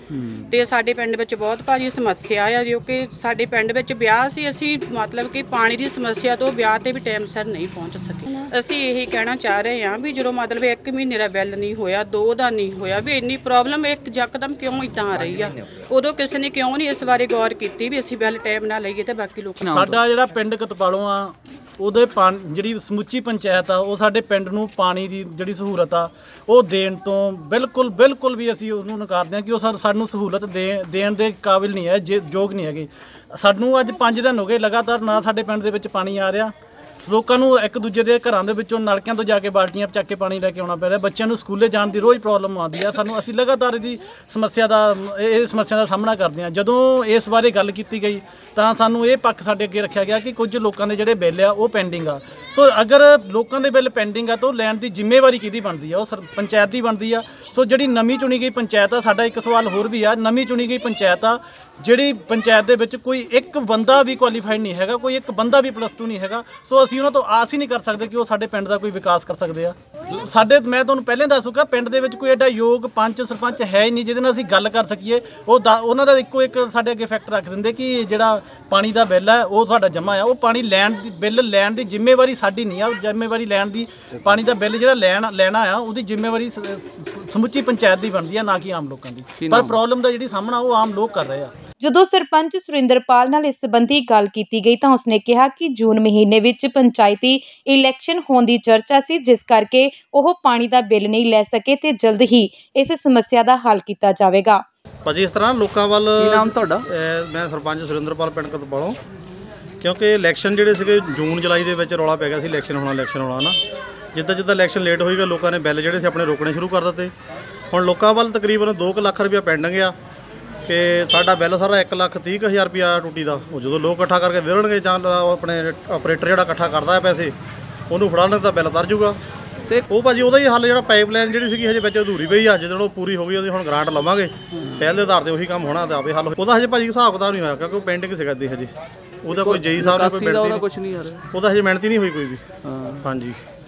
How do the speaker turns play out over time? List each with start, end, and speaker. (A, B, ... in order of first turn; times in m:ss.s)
0:00.1-0:00.5 A
0:00.5-0:19.7 B
0:19.6-0:20.0 A
0:19.6-1:31.5 C
1:29.4-1:29.8 A
1:31.8-1:44.6 D
1:45.0-1:49.0 E
1:46.2-1:46.8 A
1:49.8-1:53.6 E
1:54.1-1:57.1 E
1:57.7-1:59.9 E
2:00.7-2:07.3 E
2:07.9-2:09.2 E
2:09.9-2:18.7 E
2:14.5-2:14.8 A
2:19.2-2:20.6 E
2:19.3-2:21.2 A
2:21.3-2:22.4 E
2:22.6-2:23.0 A
2:23.0-2:23.4 E